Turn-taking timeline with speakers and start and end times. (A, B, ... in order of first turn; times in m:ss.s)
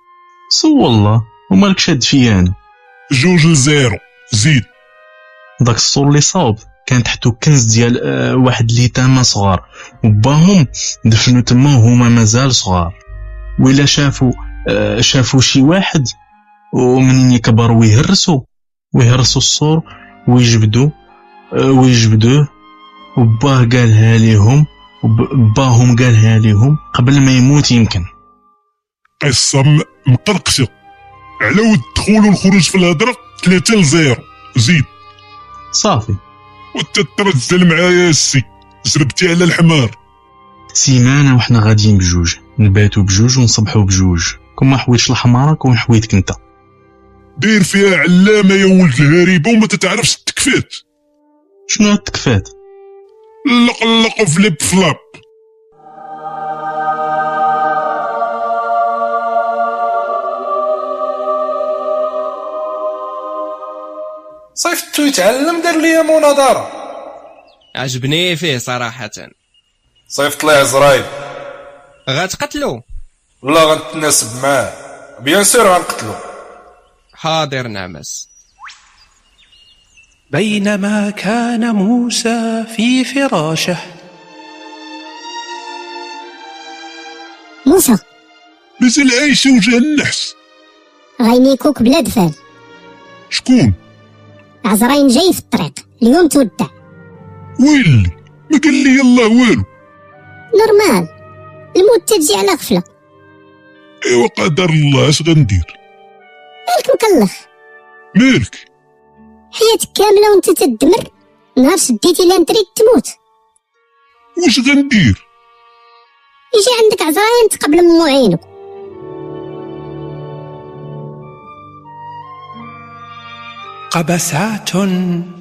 0:00.5-0:02.6 A
0:03.2-0:04.7 B
0:05.6-0:13.0 A
0:13.6-0:16.1 A
0:16.7-0:20.9 A
0:21.5-0:22.5 A
0:23.2-0:28.1 A
0:29.2-0:30.7 B
0:31.4-0:34.9 B
0:35.7-0:36.2 A
0:36.8-0:40.0 B
0:40.8-0:46.4 A
0:47.4-0:50.8 B
0:51.7-0:52.5 A
0:53.5-0:55.2 B
1:04.6-1:06.7 C
1:07.8-1:09.3 D
1:10.1-1:11.1 C
1:12.1-1:12.8 D
1:13.4-1:16.2 C
1:17.2-1:18.3 D
1:20.3-1:23.8 E
1:27.7-1:28.0 F
1:28.8-1:30.4 B
1:31.2-1:32.4 F
1:33.3-1:33.8 B
1:34.6-1:36.7 F
1:37.6-1:39.7 B
1:40.5-1:41.1 F
1:41.8-1:42.8 F
1:44.1-1:45.7 B
1:46.7-1:47.3 F
1:48.2-1:48.6 B
1:49.6-1:53.1 F
1:54.4-1:55.2 B
1:56.5-1:58.4 F
2:03.9-2:05.3 E